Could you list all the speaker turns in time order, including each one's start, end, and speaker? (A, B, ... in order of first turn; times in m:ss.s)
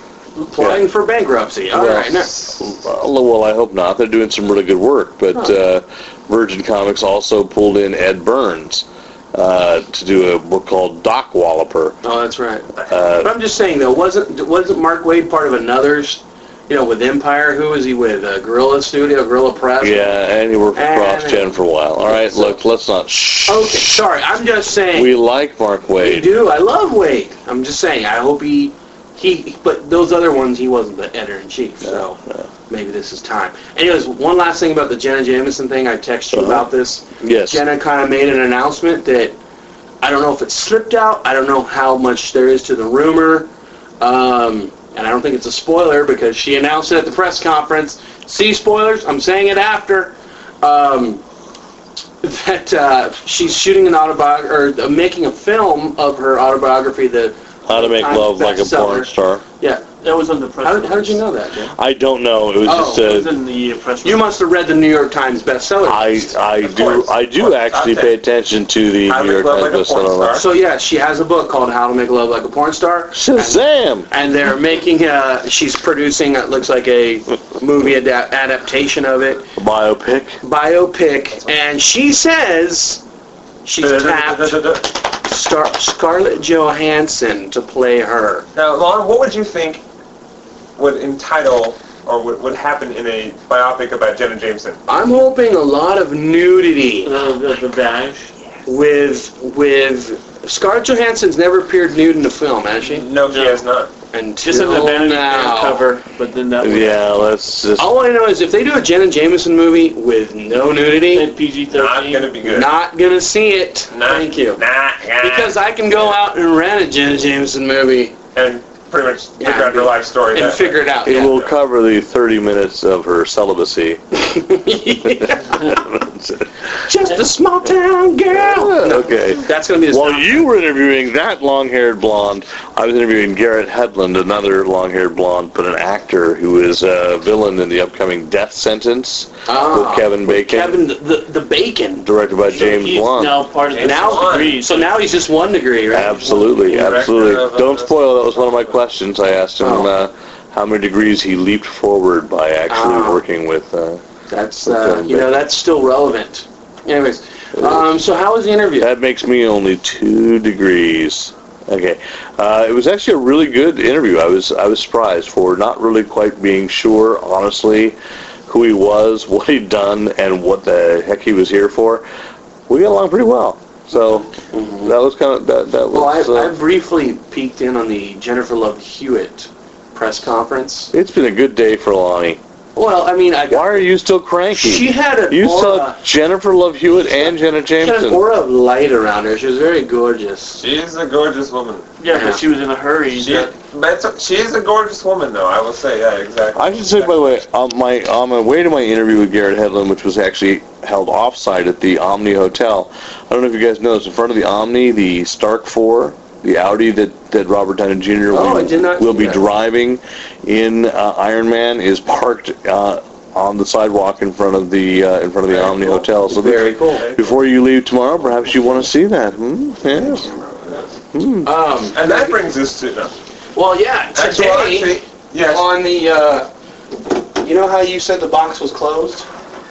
0:00.4-0:02.6 A
0:00.6-0:00.8 B
0:01.7-0:12.0 B
0:12.0-0:20.2 A
0:12.9-0:13.3 B
0:19.8-0:24.0 B
0:20.8-0:22.6 A
0:23.5-0:25.1 A
0:24.9-0:26.3 B
0:26.0-0:39.4 A
0:31.8-0:32.5 B
0:36.3-0:36.7 B
0:37.2-0:37.6 B
0:40.0-0:51.2 A
0:52.2-0:59.9 A
0:57.7-0:59.4 B
1:00.0-1:01.2 C
1:00.6-1:01.7 A
1:01.8-1:03.3 B
1:02.6-1:03.2 A
1:03.0-1:04.3 C
1:04.0-1:06.4 A
1:05.8-1:10.4 B
1:06.6-1:08.1 D
1:09.1-1:10.5 D
1:10.3-1:19.5 A
1:13.1-1:14.1 B
1:19.6-1:20.4 B
1:20.4-1:23.0 A
1:23.6-1:28.5 A
1:23.8-1:24.9 D
1:28.6-1:29.8 D
1:30.8-1:34.8 D
1:34.9-1:37.1 A
1:37.0-1:38.3 C
1:38.7-1:43.1 A
1:42.8-1:43.9 D
1:43.3-1:43.6 C
1:44.1-1:45.9 A
1:44.4-1:47.1 C
1:46.6-1:47.9 B
1:47.8-1:51.3 A
1:51.1-1:52.4 C
1:51.7-1:52.7 D
1:52.5-1:54.6 A
1:53.9-1:56.2 D
1:55.2-1:58.2 A
1:58.4-2:01.5 D
1:59.4-2:01.4 A
2:01.0-2:04.0 B
2:04.1-2:05.8 A
2:05.1-2:06.5 B
2:06.8-2:10.5 A
2:08.3-2:20.8 B
2:19.5-2:22.1 A
2:22.0-2:23.4 B
2:22.5-2:25.0 C
2:23.7-2:24.6 D
2:23.8-2:26.6 A
2:25.9-2:34.0 B
2:26.5-2:28.7 D
2:29.6-2:29.9 A
2:32.7-2:33.2 A
2:34.3-2:38.9 A
2:34.6-2:35.4 B
2:37.6-2:37.8 B
2:38.8-2:52.0 B
2:52.7-2:54.3 B
2:54.5-2:54.9 A
2:54.8-2:56.5 B
2:55.9-3:00.9 A
3:00.9-3:02.4 B
3:02.8-3:03.9 A
3:03.5-3:08.2 B
3:04.5-3:06.0 A
3:07.0-3:10.6 A
3:10.6-3:11.9 D
3:12.0-3:13.5 C
3:12.1-3:12.4 A
3:13.2-3:17.2 D
3:16.6-3:40.3 B
3:28.3-3:29.4 A
3:35.5-3:37.1 A
3:36.9-3:37.4 D
3:38.4-3:38.9 A
3:40.0-3:40.9 A
3:41.1-3:41.5 B
3:41.4-3:42.4 A
3:41.9-3:43.2 D
3:43.6-3:49.3 A
3:44.2-3:45.7 D